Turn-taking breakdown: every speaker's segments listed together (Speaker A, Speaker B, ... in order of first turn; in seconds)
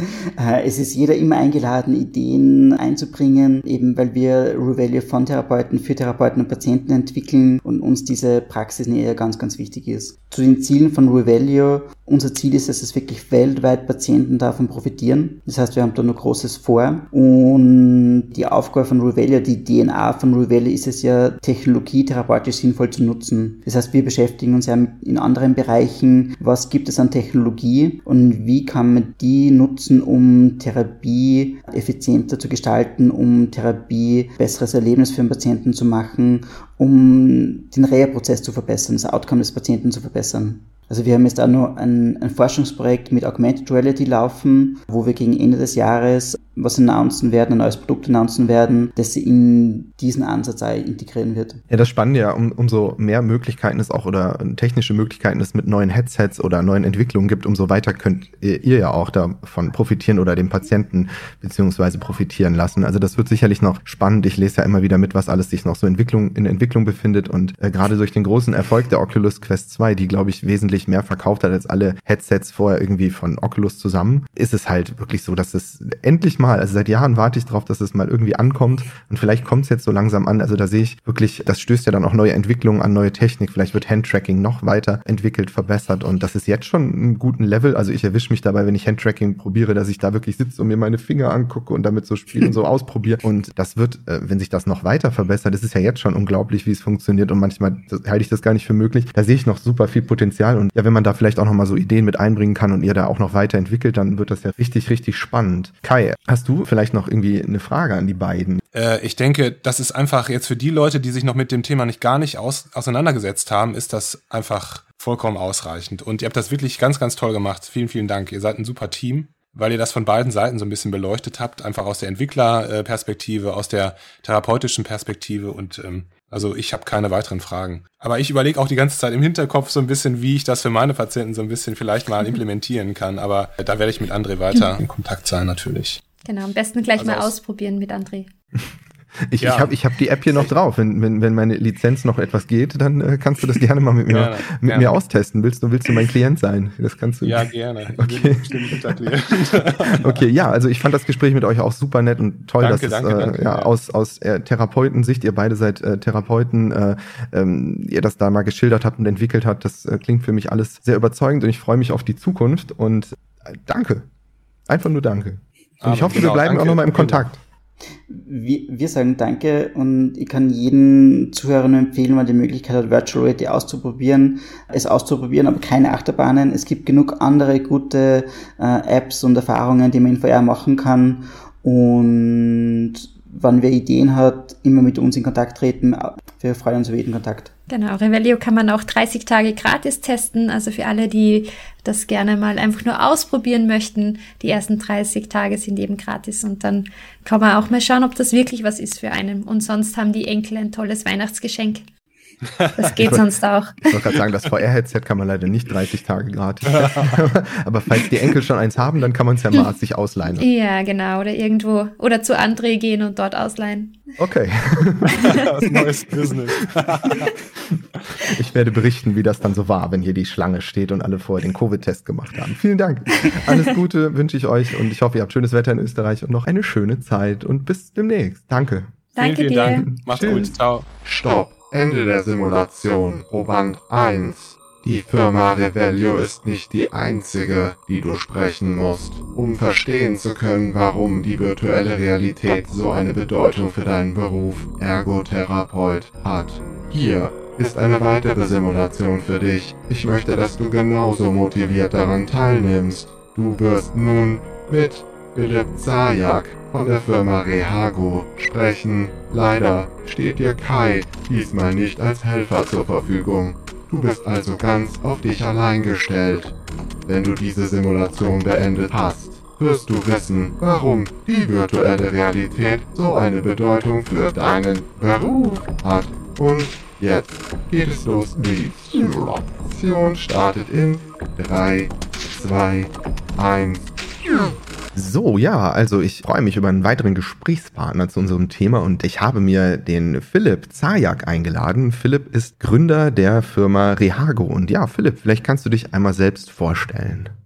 Speaker A: 0.4-51.6, 168.1-187.5
Speaker B: 51.7-108.6, 139.3-148.8, 149.8-164.1, 164.7-167.4, 203.0-203.3, 203.8-210.5, 214.2-215.4, 217.1-228.9, 229.7-230.5, 284.9-297.3
Speaker C: 108.7-136.0, 137.0-137.3, 139.4-139.7, 144.1-144.9, 147.2-150.2, 152.6-153.7, 165.8-167.3, 206.7-207.2, 215.2-217.3, 229.2-230.9
Speaker D: 136.2-138.3, 187.7-201.8, 202.7-203.8, 210.4-214.0, 229.2-229.9
Speaker E: 231.0-266.5, 267.1-284.6